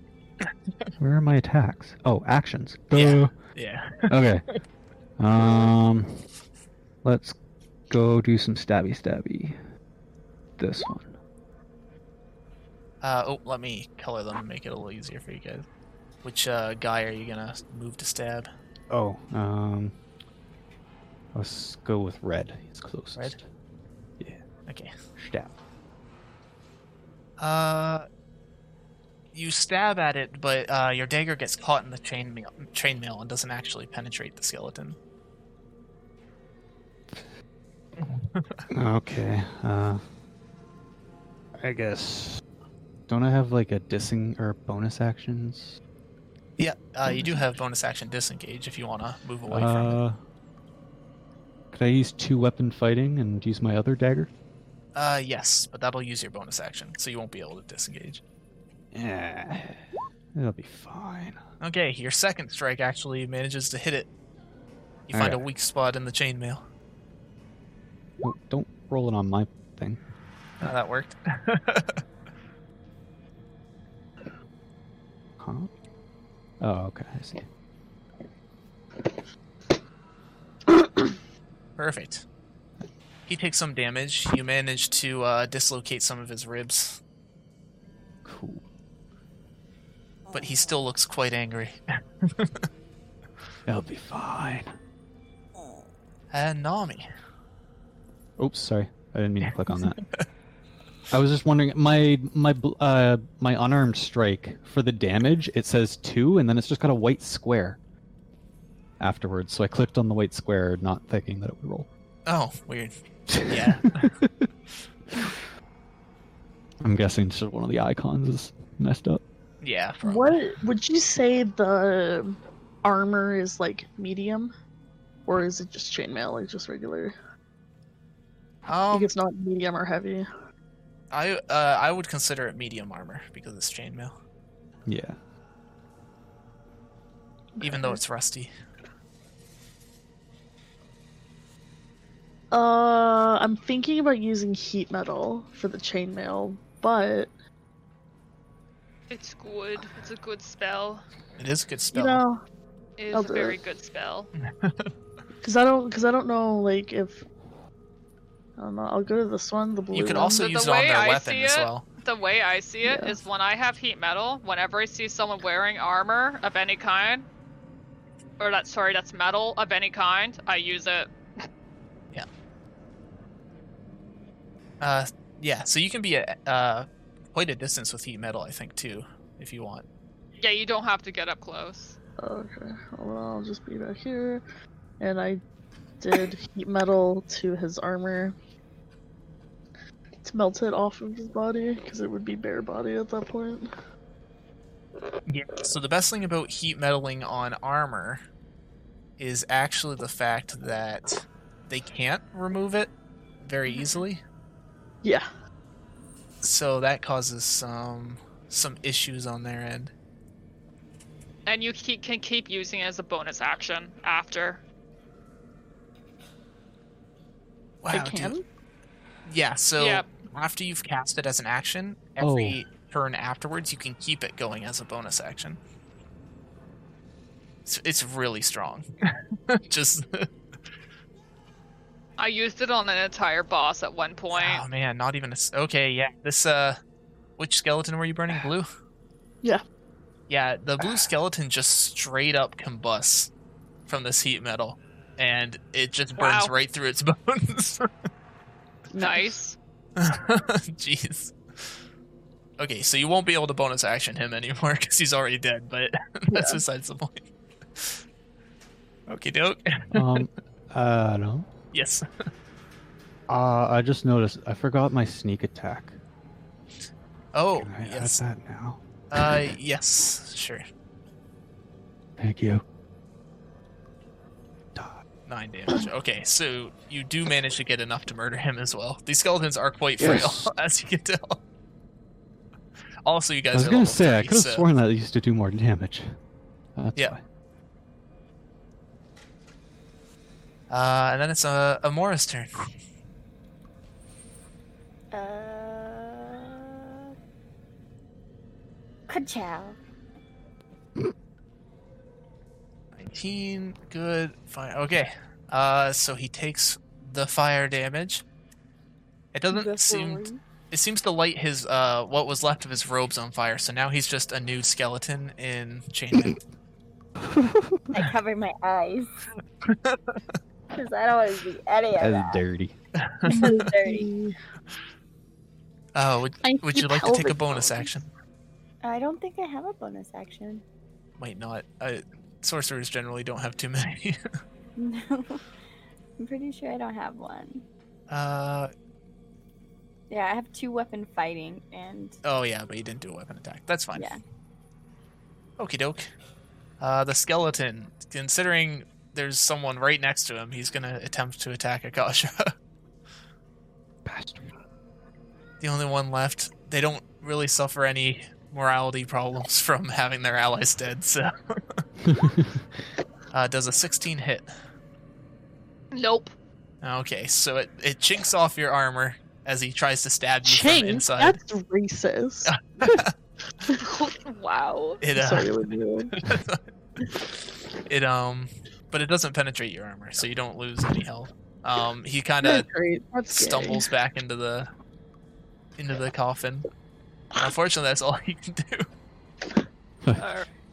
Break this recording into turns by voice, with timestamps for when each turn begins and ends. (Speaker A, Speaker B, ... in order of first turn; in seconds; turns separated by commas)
Speaker A: 1.0-3.3, Speaker B: 2.9-4.1, Speaker A: 4.1-4.5, Speaker A: 5.2-6.2, Speaker A: 7.0-7.4, Speaker A: 7.9-9.6, Speaker A: 10.6-11.2, Speaker B: 13.0-15.7, Speaker B: 16.2-18.5, Speaker A: 18.9-20.0, Speaker A: 21.3-23.5, Speaker B: 24.7-24.9, Speaker A: 25.2-25.5, Speaker B: 27.4-28.1, Speaker B: 29.3-35.0, Speaker B: 38.0-38.5, Speaker A: 38.7-40.0, Speaker A: 41.6-42.4, Speaker A: 43.1-45.8, Speaker B: 46.6-50.0, Speaker A: 47.1-47.4, Speaker A: 49.5-50.2, Speaker A: 51.7-54.3, Speaker B: 55.0-58.2, Speaker A: 58.9-61.4, Speaker B: 61.6-64.1, Speaker B: 65.1-66.6, Speaker A: 65.1-65.4, Speaker A: 68.2-70.0, Speaker B: 70.6-72.0, Speaker A: 75.4-75.7, Speaker A: 76.6-77.5, Speaker B: 81.8-82.2, Speaker B: 83.3-87.0, Speaker A: 88.2-88.6, Speaker C: 90.3-90.8, Speaker B: 90.3-92.7, Speaker A: 93.7-94.8, Speaker B: 96.3-97.0, Speaker A: 98.4-100.0, Speaker A: 101.1-107.8, Speaker A: 109.0-111.9, Speaker B: 112.3-112.9, Speaker A: 113.3-114.5, Speaker B: 113.5-114.2, Speaker A: 116.8-119.2, Speaker B: 119.6-120.4, Speaker D: 120.0-124.5, Speaker D: 125.3-127.2, Speaker B: 128.7-129.1, Speaker D: 128.9-130.3, Speaker B: 131.1-134.1, Speaker A: 134.9-135.2, Speaker D: 137.6-138.0, Speaker B: 137.6-138.5, Speaker D: 142.5-147.3, Speaker E: 149.1-151.0, Speaker B: 151.4-152.2, Speaker D: 151.9-152.4, Speaker E: 153.0-154.3, Speaker D: 153.1-153.6, Speaker B: 154.4-154.9, Speaker D: 155.4-157.2, Speaker D: 158.6-160.4, Speaker B: 159.9-161.8, Speaker E: 160.3-167.3, Speaker D: 162.8-163.2, Speaker E: 168.4-171.1, Speaker B: 174.8-179.8, Speaker E: 180.4-182.0, Speaker D: 182.2-184.4, Speaker D: 185.0-185.4, Speaker D: 186.0-188.3, Speaker D: 190.2-193.7, Speaker B: 195.3-198.2, Speaker B: 199.2-204.2, Speaker E: 203.7-204.1, Speaker B: 206.4-209.9, Speaker E: 211.5-214.6, Speaker B: 217.8-218.4, Speaker D: 217.9-218.4, Speaker B: 219.3-225.6, Speaker E: 219.8-220.1, Speaker A: 222.2-222.6, Speaker B: 227.7-228.9, Speaker B: 229.5-230.3, Speaker E: 232.2-234.6, Speaker B: 234.3-236.8, Speaker B: 237.4-238.7, Speaker B: 240.3-243.3, Speaker B: 243.9-247.9, Speaker E: 246.2-246.5, Speaker D: 248.9-249.4, Speaker E: 249.0-249.6, Speaker B: 250.0-251.3, Speaker B: 252.6-257.3, Speaker D: 256.3-256.6, Speaker B: 259.1-260.2, Speaker A: 259.9-261.5, Speaker B: 261.7-262.1, Speaker A: 263.3-266.0, Speaker B: 267.3-268.2, Speaker A: 267.6-269.4, Speaker B: 269.1-270.6, Speaker A: 272.2-272.6, Speaker A: 274.8-275.0, Speaker B: 275.3-281.4, Speaker A: 280.0-280.5, Speaker B: 283.1-284.7, Speaker A: 283.5-286.1, Speaker A: 286.8-287.2, Speaker B: 290.7-292.5, Speaker C: 295.1-296.9, Speaker C: 299.1-299.8, Speaker B: 302.9-308.2, Speaker B: 309.3-316.4, Speaker C: 309.5-310.4, Speaker A: 317.3-317.9, Speaker C: 317.9-319.1, Speaker B: 319.6-320.2, Speaker C: 320.7-322.4, Speaker A: 322.0-322.8, Speaker B: 323.0-323.6, Speaker D: 323.2-324.4, Speaker C: 323.3-324.1, Speaker B: 326.0-328.1, Speaker D: 326.4-327.9, Speaker C: 328.8-330.6, Speaker B: 331.2-334.2, Speaker C: 334.8-335.4, Speaker C: 336.2-337.6, Speaker B: 338.1-338.7, Speaker C: 340.1-342.2, Speaker B: 342.2-344.1, Speaker B: 345.6-346.1, Speaker B: 346.8-352.5, Speaker A: 354.1-354.5, Speaker B: 355.6-361.8, Speaker A: 362.1-362.6, Speaker B: 363.3-364.5, Speaker E: 365.9-366.3, Speaker B: 366.8-371.4, Speaker D: 370.4-372.5, Speaker B: 372.4-373.1, Speaker E: 373.8-375.0, Speaker B: 375.0-375.5, Speaker D: 375.1-376.1, Speaker B: 376.1-382.7, Speaker D: 382.4-383.9, Speaker B: 383.3-384.7, Speaker B: 385.8-386.7, Speaker B: 387.4-388.9, Speaker E: 390.2-390.5